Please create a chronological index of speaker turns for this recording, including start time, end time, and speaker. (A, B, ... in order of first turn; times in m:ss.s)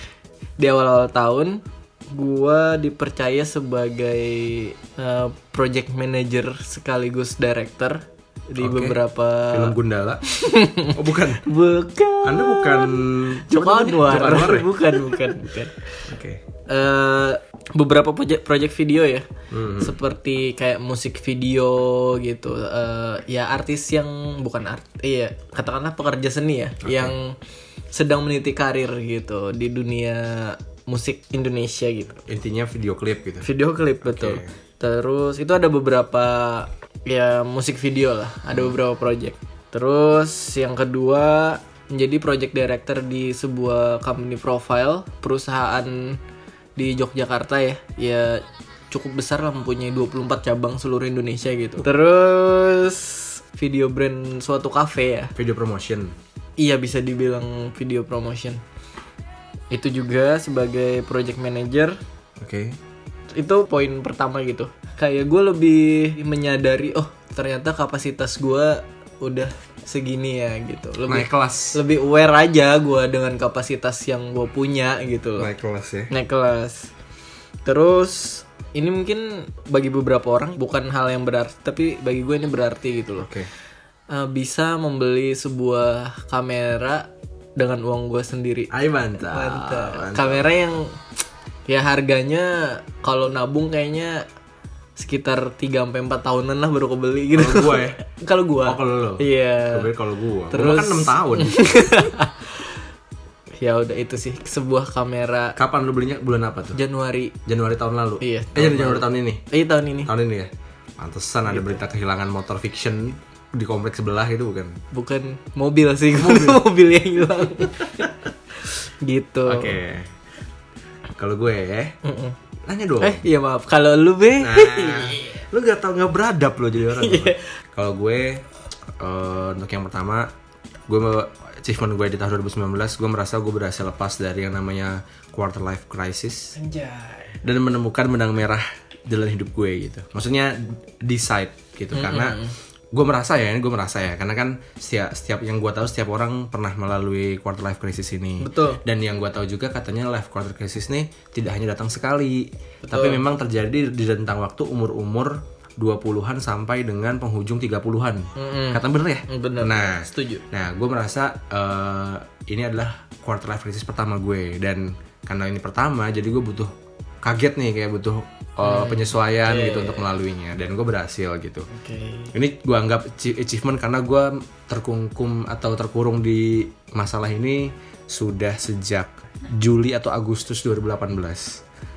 0:00.6-0:16.0 A
0:08.6-0:10.2 B
0:10.9-0:11.4 B
0:12.2-0:15.4 B
0:16.1-0:16.4 B
0:16.7-0:27.4 A
0:19.5-0:20.0 B
0:26.8-0:27.2 B
0:27.9-0:32.2 A
0:32.3-0:33.5 B
0:33.4-0:46.2 A
0:34.0-0:34.6 B
0:46.8-0:55.3 A
0:55.4-0:56.2 B
0:56.6-0:58.6 A
0:59.7-1:02.0 A
1:02.4-1:02.8 B
1:03.3-1:15.5 A
1:11.1-1:11.8 B
1:15.4-1:16.1 B
1:16.1-1:16.9 A
1:17.6-1:23.3 A
1:23.2-1:23.5 B
1:24.1-1:31.0 A
1:28.7-1:30.4 B
1:31.7-1:34.2 A
1:35.0-1:39.9 A
1:37.3-1:38.0 B
1:38.7-1:41.6 B
1:40.5-1:42.8 A
1:43.6-1:45.6 A
1:45.6-1:46.8 B
1:46.7-1:47.4 A
1:47.5-1:49.4 B
1:48.2-1:50.1 A
1:50.0-1:54.8 B
1:51.5-1:51.8 A
1:54.9-1:59.8 A
1:56.1-1:56.6 B
1:59.5-2:00.1 B
2:01.2-2:02.0 B
2:02.0-2:02.4 A
2:02.7-2:03.2 B
2:03.0-2:05.4 A
2:04.4-2:08.4 B
2:06.9-2:07.4 A
2:09.0-2:10.3 B
2:10.9-2:16.6 B
2:16.6-2:17.4 A
2:17.4-2:22.4 B
2:21.9-2:22.6 A
2:22.9-2:46.7 B
2:28.4-2:28.8 A
2:32.8-2:33.2 A
2:38.4-2:40.4 A
2:47.2-2:51.7 B
2:48.6-2:50.1 A
2:51.7-2:52.3 A
2:52.3-3:01.6 B